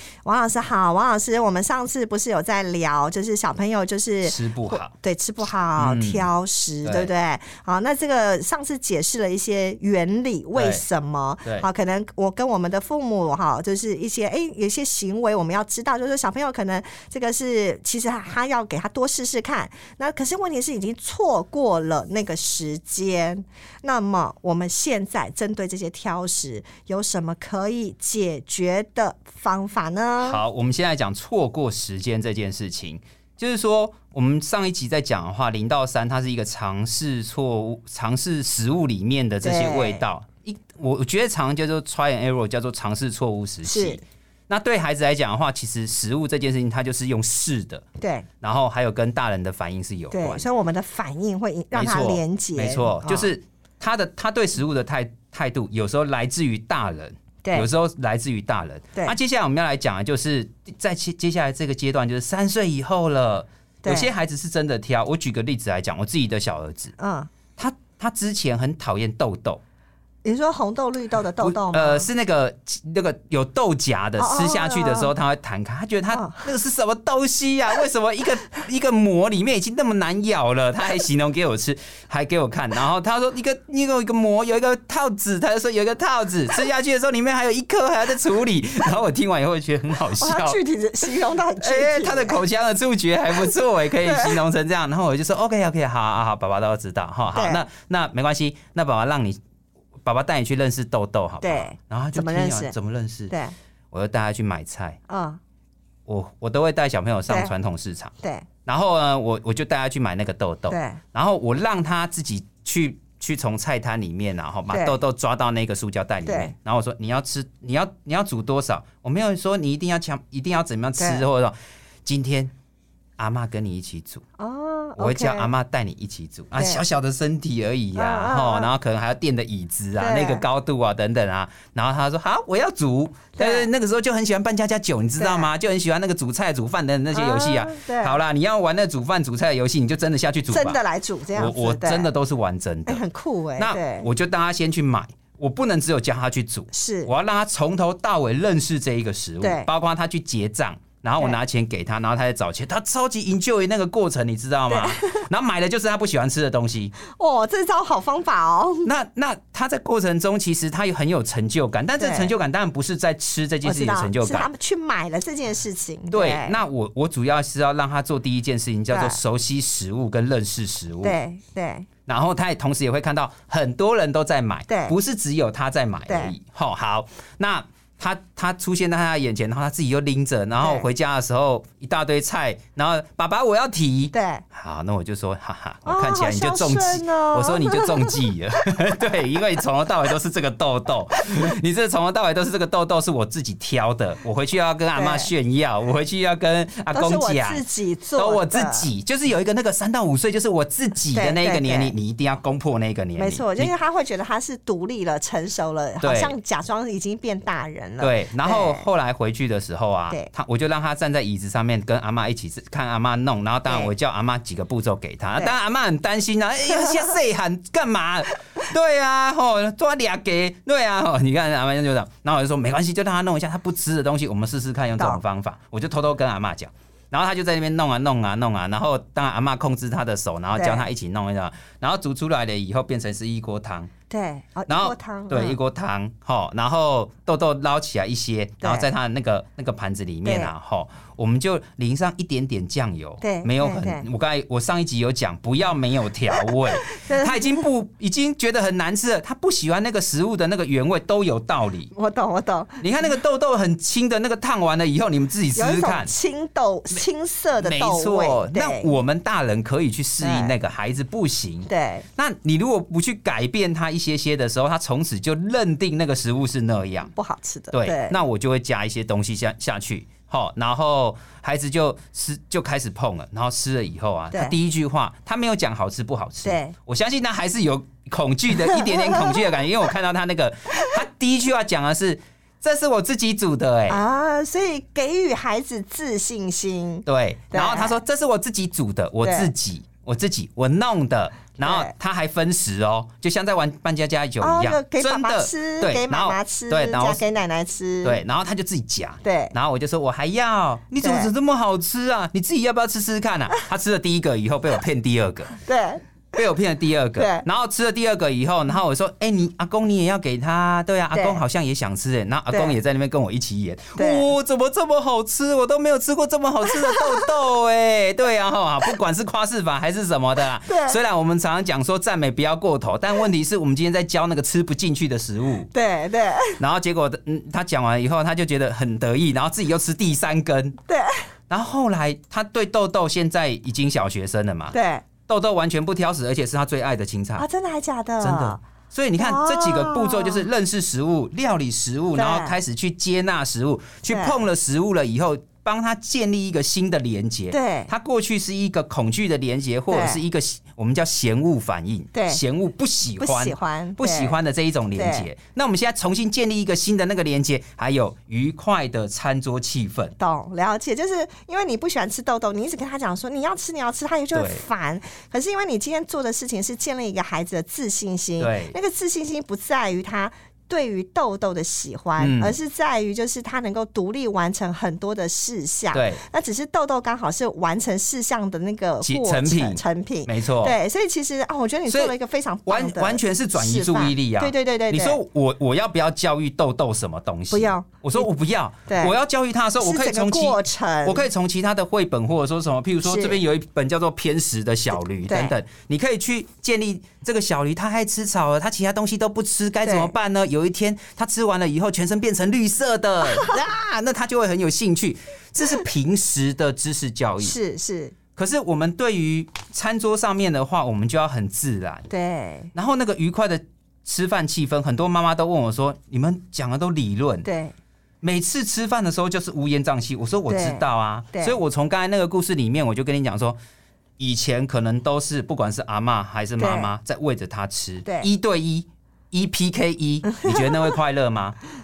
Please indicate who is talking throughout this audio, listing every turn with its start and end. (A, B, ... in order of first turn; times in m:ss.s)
0:00.2-0:30.4 A
0:04.2-0:04.9 B
0:05.8-0:06.3 B
0:06.8-0:07.1 B
0:10.6-0:10.8 B
0:30.2-0:47.8 B
0:39.4-0:40.0 A
0:43.6-0:44.0 A
0:48.0-0:48.3 A
0:48.4-0:50.4 B
0:50.1-0:53.3 A
0:51.7-1:06.9 B
1:03.8-1:04.1 A
1:07.0-1:07.3 A
1:07.6-1:09.6 B
1:10.2-1:12.1 A
1:11.4-1:30.6 B
1:14.2-1:15.1 A
1:16.1-1:16.5 A
1:30.2-1:32.4 A
1:31.6-1:39.4 B
1:34.0-1:34.4 A
1:37.3-1:37.6 A
1:40.0-1:43.3 B
1:41.4-1:42.8 A
1:43.3-1:43.6 A
1:43.9-1:45.0 B
1:45.1-1:45.4 A
1:46.1-1:48.1 B
1:47.3-1:47.5 A
1:48.2-1:48.5 A
1:48.7-2:02.5 B
1:50.7-1:51.0 A
1:54.7-1:55.0 A
1:56.3-1:56.5 A
2:01.0-2:01.2 A
2:03.2-2:04.2 B
2:04.4-2:05.5 A
2:05.0-2:20.8 B
2:06.6-2:06.8 A
2:08.0-2:08.7 A
2:10.0-2:10.4 A
2:13.4-2:13.7 A
2:15.2-2:15.5 A
2:17.1-2:18.2 A
2:20.5-2:22.1 A
2:21.3-2:23.0 B
2:22.9-2:24.1 A
2:23.6-2:36.9 B
2:26.7-2:27.1 A
2:29.4-2:29.7 A
2:34.7-2:35.3 A
2:37.1-2:38.9 A
2:38.8-2:44.5 B
2:42.0-2:42.3 A
2:43.6-2:46.6 A
2:46.1-2:51.2 B
2:48.9-2:49.2 A
2:51.0-2:51.9 A
2:52.1-3:17.6 B
2:54.7-2:55.0 A
2:56.1-2:56.3 A
3:00.6-3:00.9 A
3:04.1-3:04.4 A
3:05.9-3:08.8 A
3:15.0-3:15.3 A
3:16.9-3:18.9 A
3:18.2-3:23.7 B
3:21.1-3:21.9 A
3:23.2-3:28.8 A
3:26.0-3:26.4 B
3:28.0-3:53.9 B
3:50.6-3:50.9 A
3:54.1-3:55.6 A
3:54.7-4:11.9 B
3:58.6-3:58.9 A
4:00.2-4:00.5 A
4:03.2-4:04.0 A
4:06.4-4:07.6 A
4:11.9-4:12.8 A
4:12.8-4:16.1 B
4:15.6-4:18.9 A
4:17.6-4:27.1 B
4:20.2-4:20.5 A
4:21.7-4:22.1 A
4:27.2-4:28.2 A
4:27.7-4:44.0 B
4:36.4-4:36.8 A
4:38.7-4:39.5 A
4:43.9-4:48.0 A
4:47.1-4:57.2 B
4:49.2-4:49.5 A
4:51.6-4:51.9 A
4:54.4-4:58.2 A
4:58.0-5:05.5 B
4:59.2-4:59.6 A
5:01.0-5:01.3 A
5:05.6-5:06.0 A
5:06.3-5:25.7 B
5:07.2-5:07.4 A
5:11.1-5:11.4 A
5:12.5-5:12.8 A
5:14.0-5:14.3 A
5:16.7-5:17.3 A
5:20.7-5:21.0 A
5:25.7-5:26.6 A
5:26.6-5:30.8 B
5:30.9-5:31.2 A
5:31.5-5:34.8 B
5:34.7-5:35.0 A
5:35.3-5:37.5 B
5:37.4-5:38.6 A
5:38.2-6:00.1 B
5:39.2-5:40.5 A
5:42.2-5:42.6 A
5:44.1-5:44.4 A
5:47.5-5:47.9 A
5:49.9-5:50.2 A
5:52.1-5:52.4 A
5:53.2-5:54.4 A
5:55.0-5:55.3 A
6:00.2-6:25.2 A
6:04.3-6:04.6 B
6:08.4-6:08.8 B
6:12.2-6:12.6 B
6:15.9-6:16.2 B
6:19.0-6:20.8 B
6:21.9-6:22.2 B
6:22.7-6:47.6 B
6:27.5-6:28.3 A
6:28.9-6:29.1 A
6:29.8-6:31.3 A
6:33.0-6:33.4 A
6:35.3-6:35.5 A
6:39.8-6:40.1 A
6:47.4-6:48.2 A
6:48.4-6:52.1 B
6:52.1-6:52.7 A
6:52.8-6:57.5 B
6:57.4-6:57.7 A
6:58.2-7:03.6 B
7:00.5-7:01.6 A
7:04.2-7:11.6 B
7:06.6-7:06.9 A
7:10.2-7:11.0 A